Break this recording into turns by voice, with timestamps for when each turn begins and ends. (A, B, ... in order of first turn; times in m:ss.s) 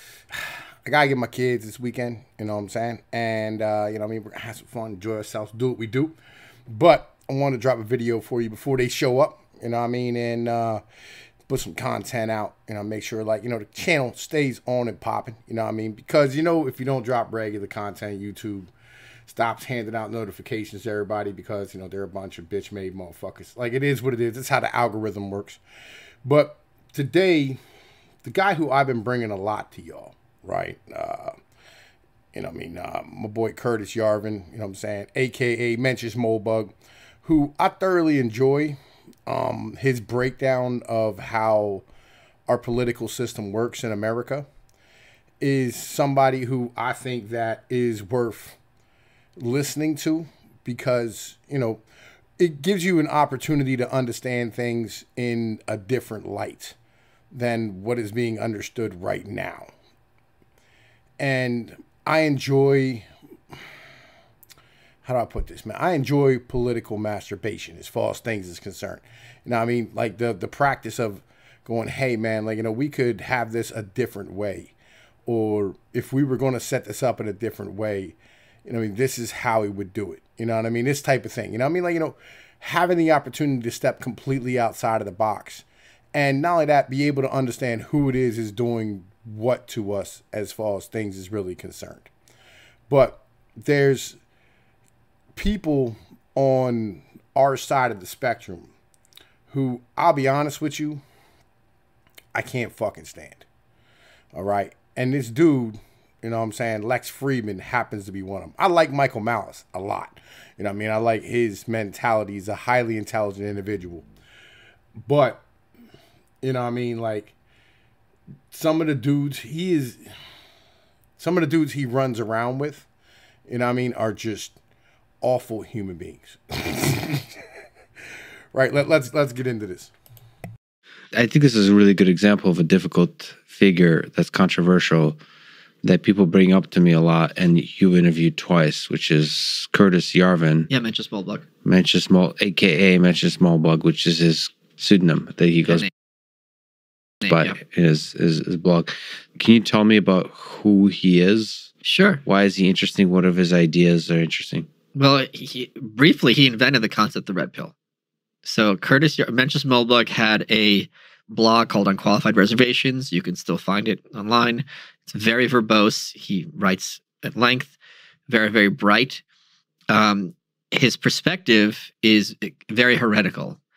0:00.3-0:06.2 A
0:06.7-0:10.8 A
0:11.5-0:18.7 A
0:19.3-0:25.6 A
0:26.2-0:27.6 A
0:28.2-0:31.3 A
0:32.3-0:36.7 A
0:37.2-0:41.8 A
0:42.5-0:44.5 A
0:45.4-0:48.6 A
0:49.4-0:51.8 A
0:52.4-0:56.8 A
0:57.3-0:59.7 A
1:01.2-1:03.0 A
1:05.0-1:14.7 A
1:15.2-1:32.1 A
1:32.9-1:34.2 A
1:35.3-1:38.7 A
1:39.5-1:41.0 A
1:42.3-1:43.4 A
1:44.3-1:54.0 A
1:55.0-1:55.4 A
1:56.4-1:57.3 A
1:58.5-2:00.0 A
2:01.2-2:02.9 A
2:03.5-2:04.6 A
2:05.2-2:07.3 A
2:08.5-2:09.9 A
2:11.1-2:15.2 B
2:15.8-2:20.7 B
2:20.7-2:21.4 C
2:21.6-2:25.9 B
2:27.2-2:27.6 C
2:27.3-2:31.7 B
2:31.8-2:32.2 C
2:32.2-2:34.7 B
2:34.9-2:37.7 C
2:38.4-2:47.7 C
2:48.3-2:49.2 C
2:49.9-2:53.6 C